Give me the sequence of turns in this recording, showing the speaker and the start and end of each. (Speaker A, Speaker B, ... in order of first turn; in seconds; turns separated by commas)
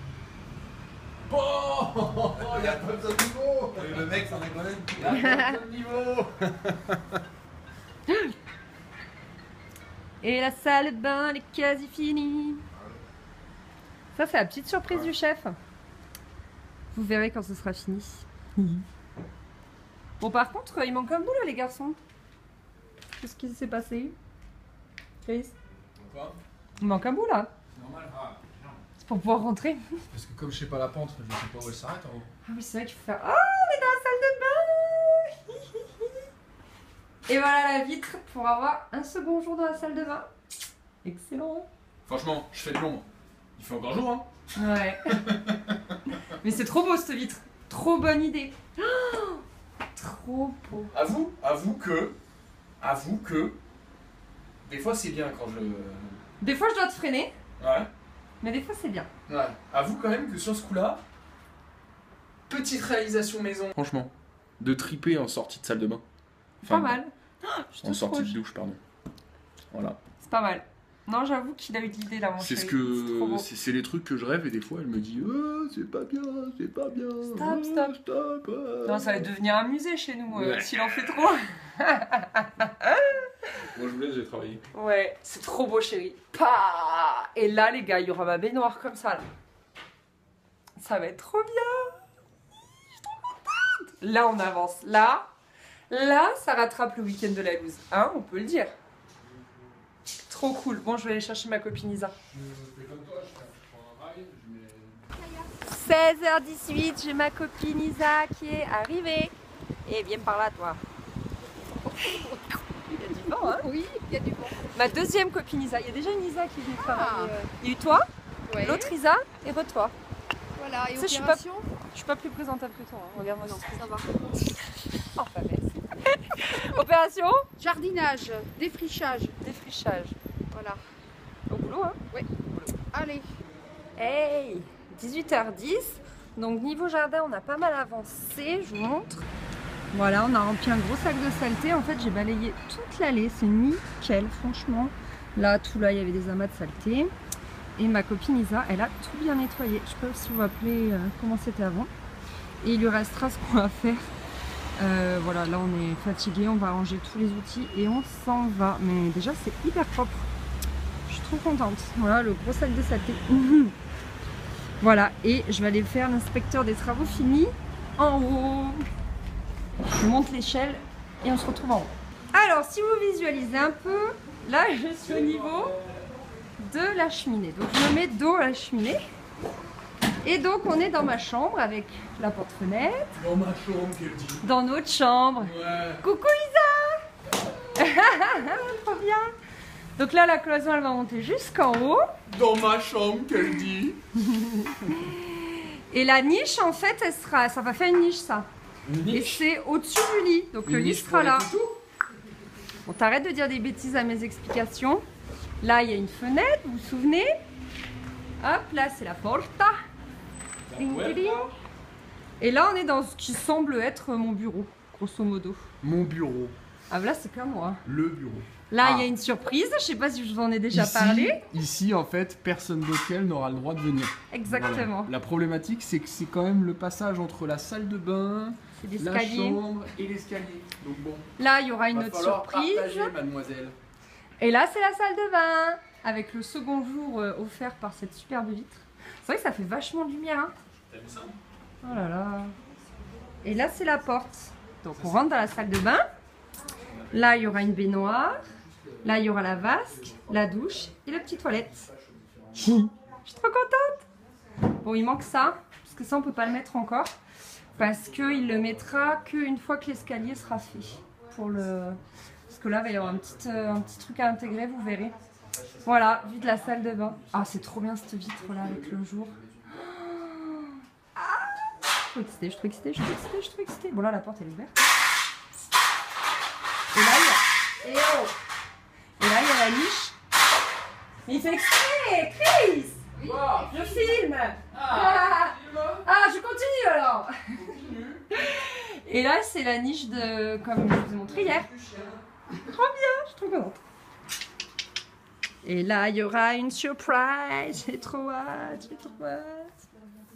Speaker A: 1.3-4.2, Speaker B: 2.5-3.0, Speaker B: 3.7-5.1, Speaker A: 4.9-7.0, Speaker C: 5.1-5.6, Speaker C: 10.2-12.6, Speaker C: 14.1-15.6, Speaker C: 16.9-18.9, Speaker C: 20.2-22.0, Speaker C: 23.2-24.2, Speaker C: 25.2-25.5, Speaker A: 26.0-26.4, Speaker C: 26.8-27.5, Speaker A: 27.7-28.2, Speaker B: 28.3-28.7, Speaker C: 29.0-29.8, Speaker A: 30.1-32.3, Speaker C: 32.5-36.2, Speaker C: 37.3-40.3, Speaker C: 41.0-41.7, Speaker A: 42.1-44.3, Speaker C: 44.5-45.3, Speaker A: 45.1-45.9, Speaker C: 46.1-49.4, Speaker C: 50.0-50.9, Speaker A: 50.9-52.2, Speaker A: 52.8-53.6, Speaker A: 54.6-56.2, Speaker C: 56.4-57.3, Speaker A: 57.6-57.9, Speaker C: 58.4-59.1, Speaker A: 59.3-61.0, Speaker A: 62.5-66.0, Speaker C: 66.6-68.4, Speaker A: 66.6-67.0, Speaker A: 67.8-68.8, Speaker A: 69.7-70.0, Speaker C: 70.2-73.5, Speaker A: 72.4-79.3, Speaker C: 77.3-78.0, Speaker C: 78.8-83.3, Speaker A: 80.3-80.9, Speaker A: 83.7-84.6, Speaker C: 84.7-89.3, Speaker C: 90.8-92.0, Speaker C: 93.5-95.3, Speaker C: 95.9-98.7, Speaker A: 99.4-99.6, Speaker C: 100.3-102.2, Speaker A: 102.2-105.1, Speaker C: 105.5-110.8, Speaker D: 111.8-112.4, Speaker C: 112.0-113.7, Speaker D: 113.5-114.7, Speaker C: 114.7-118.1, Speaker D: 116.8-117.5, Speaker D: 118.5-118.9, Speaker C: 118.6-120.0, Speaker D: 120.6-121.7, Speaker C: 120.9-124.0, Speaker D: 123.4-124.1, Speaker C: 125.0-127.5, Speaker D: 127.6-129.4, Speaker C: 129.4-130.2, Speaker D: 130.5-130.8, Speaker C: 131.5-132.0, Speaker D: 132.8-133.3, Speaker C: 134.0-139.3, Speaker C: 139.9-147.1, Speaker C: 147.8-151.9, Speaker C: 152.6-154.1, Speaker C: 154.8-160.3, Speaker C: 161.1-163.8, Speaker C: 164.8-168.8, Speaker C: 169.9-175.7, Speaker A: 175.1-176.1, Speaker C: 176.6-179.0, Speaker C: 180.2-183.2, Speaker A: 183.2-184.5, Speaker C: 184.4-187.0, Speaker A: 185.4-186.0, Speaker C: 187.8-189.3, Speaker C: 190.0-192.1, Speaker A: 192.3-194.0, Speaker C: 194.2-198.5, Speaker A: 198.8-199.4, Speaker C: 199.1-201.5, Speaker A: 200.7-201.8, Speaker C: 202.8-205.0, Speaker C: 205.6-207.3, Speaker C: 208.4-209.8, Speaker A: 210.7-211.5, Speaker C: 210.7-211.5, Speaker C: 212.4-215.7, Speaker A: 215.8-216.6, Speaker C: 216.9-217.8, Speaker A: 217.9-219.1, Speaker C: 218.7-221.4, Speaker A: 220.7-231.3, Speaker C: 224.3-225.1, Speaker C: 228.8-229.6, Speaker C: 231.4-233.1, Speaker A: 231.9-233.8, Speaker C: 234.4-240.5, Speaker A: 240.9-241.4, Speaker C: 241.8-242.6, Speaker C: 243.4-246.1, Speaker A: 244.9-245.6, Speaker A: 246.8-252.9, Speaker C: 247.1-248.5, Speaker C: 249.0-251.7, Speaker C: 252.6-254.1, Speaker C: 254.8-257.1, Speaker A: 257.7-261.6, Speaker C: 257.7-265.1, Speaker A: 262.7-264.4, Speaker A: 265.5-270.1, Speaker C: 265.9-274.8, Speaker C: 276.9-278.3, Speaker C: 279.2-280.2, Speaker C: 281.2-287.5, Speaker A: 283.2-283.8, Speaker A: 284.7-286.1, Speaker A: 287.5-288.3, Speaker C: 288.3-291.7, Speaker A: 291.2-292.3, Speaker C: 292.5-293.8, Speaker C: 295.6-299.8